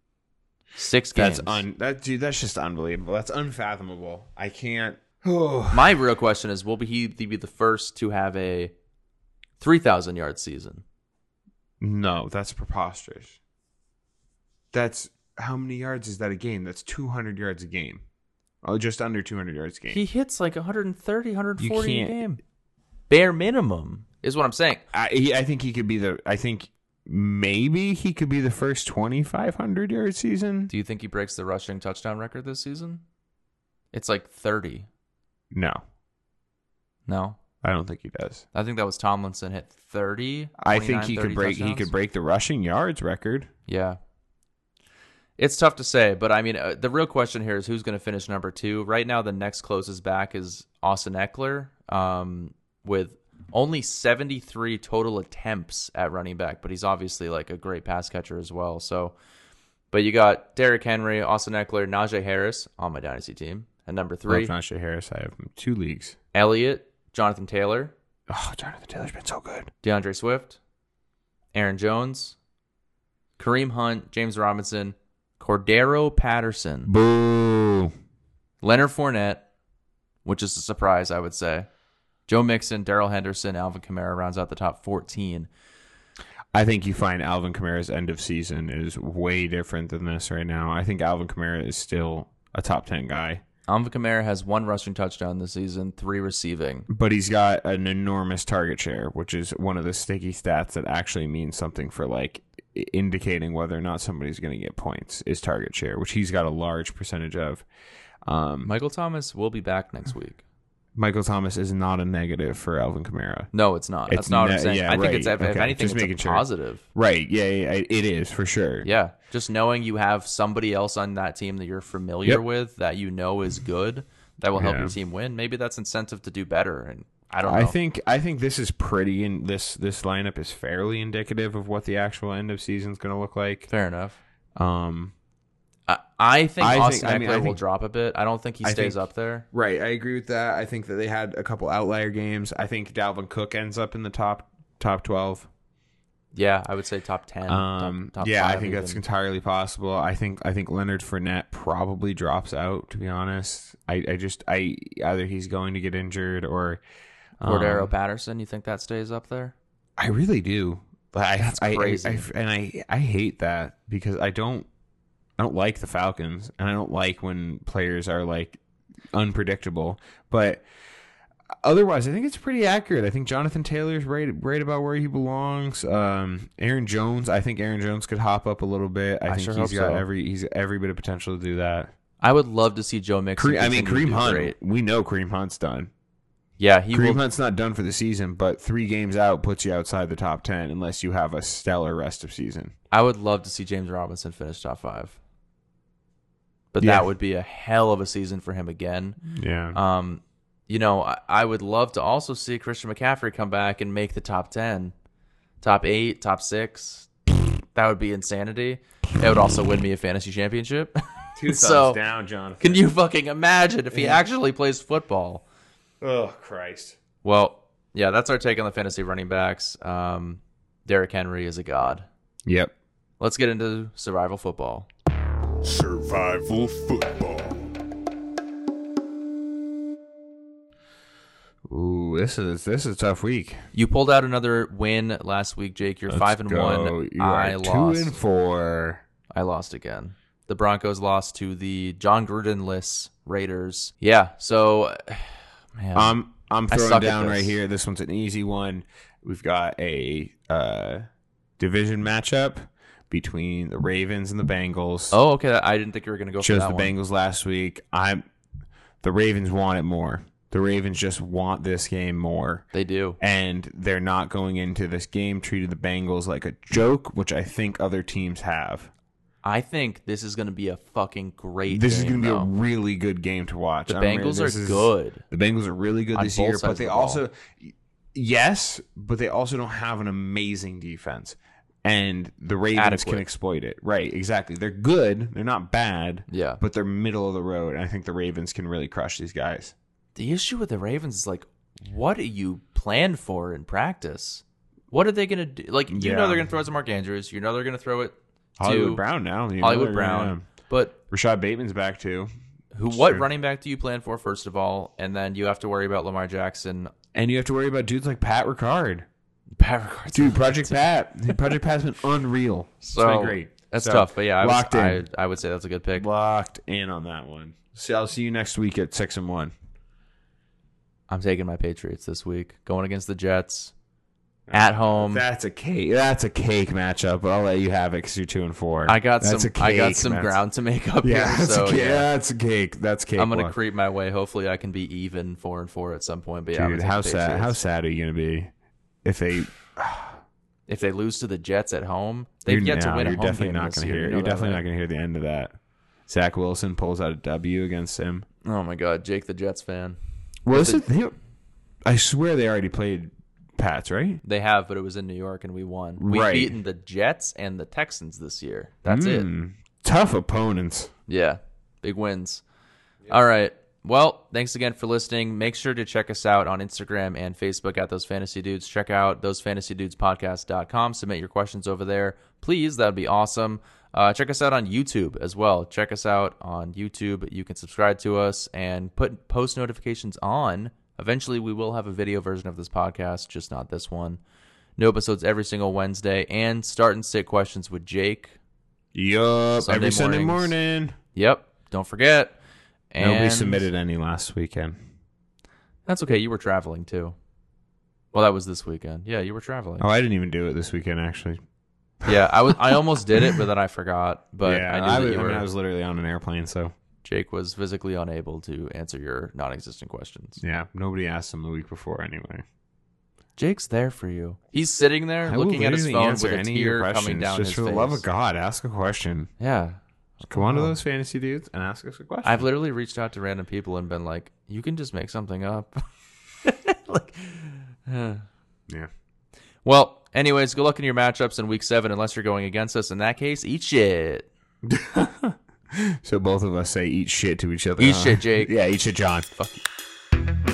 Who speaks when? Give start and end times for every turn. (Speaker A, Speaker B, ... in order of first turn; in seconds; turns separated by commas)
Speaker A: 0.7-1.6, Speaker B: 1.1-5.9, Speaker A: 5.7-8.7, Speaker A: 9.6-10.8, Speaker B: 11.8-13.4, Speaker B: 14.7-18.0, Speaker B: 18.6-20.0, Speaker A: 19.9-22.4, Speaker B: 21.6-22.2, Speaker A: 23.1-24.8, Speaker B: 24.9-30.7, Speaker A: 30.7-33.0, Speaker A: 33.9-34.9, Speaker B: 35.5-35.8, Speaker A: 37.1-37.4, Speaker B: 37.6-38.4, Speaker A: 38.5-41.9, Speaker B: 40.6-43.5, Speaker A: 43.7-44.0, Speaker A: 45.4-59.1, Speaker A: 59.9-64.5, Speaker B: 64.3-66.2, Speaker A: 66.3-67.9, Speaker B: 68.3-69.7, Speaker A: 69.8-70.6, Speaker A: 71.5-72.4, Speaker A: 73.4-76.9, Speaker B: 76.9-77.9, Speaker A: 78.6-79.5, Speaker A: 80.2-81.7, Speaker A: 82.3-85.5, Speaker B: 86.5-93.4, Speaker A: 93.7-96.9, Speaker B: 96.9-107.7, Speaker B: 108.2-108.7, Speaker A: 108.6-110.4, Speaker B: 111.0-113.5, Speaker A: 113.5-116.8, Speaker B: 114.1-118.9, Speaker A: 118.8-127.8, Speaker B: 124.5-124.9, Speaker B: 127.4-133.7, Speaker A: 133.7-134.2, Speaker B: 134.6-135.1, Speaker A: 135.9-139.4, Speaker B: 136.6-137.6, Speaker B: 138.6-139.0, Speaker B: 139.5-145.5, Speaker A: 146.3-149.0, Speaker B: 147.5-156.8, Speaker B: 157.4-157.9, Speaker A: 157.4-159.5, Speaker B: 160.0-164.7, Speaker A: 161.4-162.2, Speaker B: 165.4-168.6, Speaker B: 169.1-170.6, Speaker B: 171.6-181.9, Speaker A: 179.3-180.0, Speaker A: 182.2-184.5, Speaker B: 183.4-185.9, Speaker A: 186.6-187.2, Speaker B: 186.9-192.7, Speaker A: 192.9-195.2, Speaker A: 196.7-199.2, Speaker B: 196.8-197.1, Speaker B: 199.3-199.8, Speaker A: 199.7-204.9, Speaker A: 205.6-207.1, Speaker A: 207.7-212.0, Speaker B: 211.4-212.9, Speaker A: 212.6-215.4, Speaker B: 213.9-214.2, Speaker B: 216.0-217.0, Speaker A: 217.2-222.1, Speaker B: 222.4-222.7, Speaker A: 223.2-224.9, Speaker C: 225.6-227.7, Speaker B: 231.7-233.6, Speaker A: 233.7-238.2, Speaker B: 236.1-239.0, Speaker A: 239.3-246.2, Speaker B: 245.9-251.1, Speaker A: 246.7-247.6, Speaker B: 251.6-255.2, Speaker A: 255.1-256.9, Speaker B: 256.4-258.2, Speaker B: 259.0-262.7, Speaker A: 262.7-263.2, Speaker B: 263.2-268.9, Speaker A: 269.4-272.5, Speaker B: 271.7-289.7, Speaker A: 273.9-275.2, Speaker A: 276.1-277.2, Speaker A: 282.7-283.2, Speaker A: 286.3-286.6, Speaker A: 290.2-299.0, Speaker B: 295.9-296.4, Speaker B: 298.6-300.5, Speaker A: 299.6-300.9, Speaker B: 301.1-302.3, Speaker A: 302.7-306.9, Speaker B: 302.9-303.3, Speaker B: 307.1-309.1, Speaker A: 309.6-311.4, Speaker B: 310.1-315.0, Speaker A: 312.8-316.1, Speaker B: 315.9-319.5, Speaker A: 321.1-323.7, Speaker B: 324.5-330.4, Speaker A: 324.5-325.2, Speaker A: 328.9-332.1, Speaker B: 331.0-333.5, Speaker A: 333.2-337.6, Speaker B: 336.5-338.5, Speaker B: 339.0-340.2, Speaker A: 340.7-344.6, Speaker B: 342.5-345.5, Speaker B: 346.1-348.2, Speaker A: 348.4-350.0, Speaker B: 350.4-351.1, Speaker A: 350.5-350.8, Speaker B: 351.8-354.2, Speaker A: 354.2-359.3, Speaker B: 356.0-356.5, Speaker B: 358.9-360.9, Speaker A: 361.1-362.4, Speaker A: 363.1-384.2, Speaker A: 384.8-388.4, Speaker B: 388.9-390.9, Speaker A: 389.6-390.5, Speaker A: 391.1-392.4, Speaker A: 392.9-393.6, Speaker B: 393.0-394.8, Speaker A: 395.9-397.1, Speaker A: 398.1-399.9, Speaker B: 399.8-401.4, Speaker B: 402.0-403.4, Speaker A: 402.0-405.4, Speaker B: 404.4-406.7, Speaker A: 407.0-410.4, Speaker B: 410.4-412.4, Speaker A: 413.4-418.0, Speaker B: 415.2-419.3, Speaker A: 419.4-420.8, Speaker B: 420.2-422.5, Speaker A: 422.2-425.8, Speaker A: 426.4-428.3, Speaker A: 429.6-434.3, Speaker B: 434.7-439.3, Speaker A: 437.8-438.5, Speaker A: 439.4-439.6